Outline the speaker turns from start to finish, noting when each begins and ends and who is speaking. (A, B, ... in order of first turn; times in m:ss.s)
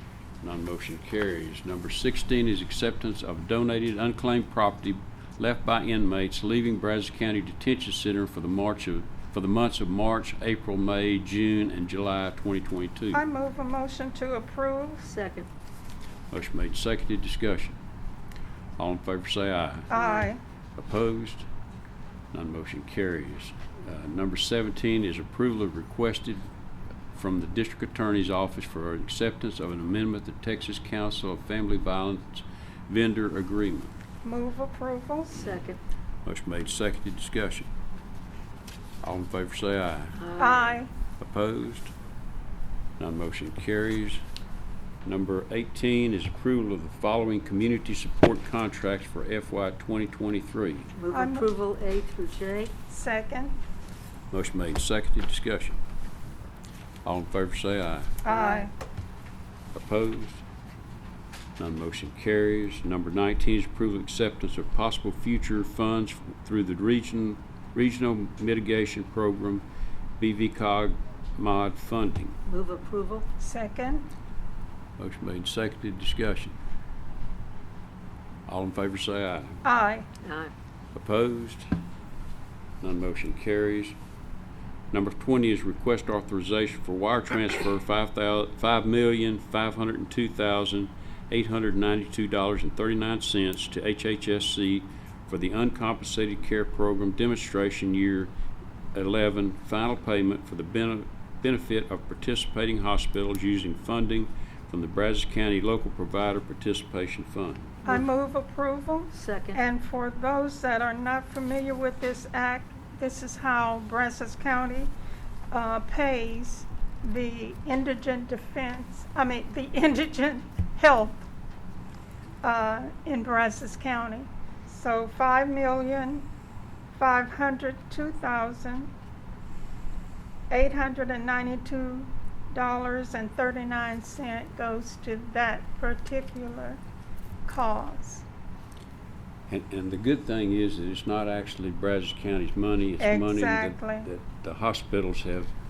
0:00.4-0:13.2 A
0:13.1-0:15.1 B
0:15.0-0:15.5 C
0:16.3-0:17.8 A
0:18.8-0:19.9 A
0:19.9-0:20.4 B
0:19.9-0:20.3 C
0:20.8-0:21.5 A
0:22.3-0:26.5 A
0:27.1-0:33.9 A
0:34.2-0:35.5 B
0:35.3-0:35.8 C
0:36.2-0:37.7 A
0:39.0-0:40.2 A
0:40.2-0:40.8 C
0:40.4-0:40.9 B
0:41.2-0:41.9 A
0:43.0-0:44.2 A
0:45.0-0:50.9 A
0:51.0-0:52.7 C
0:51.1-0:51.5 B
0:52.9-0:53.6 B
0:54.3-0:55.8 A
0:57.0-0:58.2 A
0:58.2-0:58.7 B
0:58.3-0:58.7 C
0:59.7-1:00.4 A
1:01.6-1:09.6 A
1:10.2-1:12.4 A
1:12.5-1:13.3 C
1:13.4-1:14.1 B
1:15.0-1:16.6 A
1:18.5-1:19.6 A
1:19.6-1:20.1 B
1:20.2-1:20.5 C
1:20.9-1:21.7 A
1:22.8-1:24.0 A
1:24.9-1:38.3 A
1:39.0-1:47.8 A
1:47.8-1:54.9 B
1:49.1-1:49.6 C
1:55.5-2:01.2 B
2:02.4-2:06.3 B
2:07.0-2:08.9 B
2:10.5-2:16.8 B
2:17.5-2:18.2 B
2:19.5-2:25.5 A
2:23.0-2:24.1 B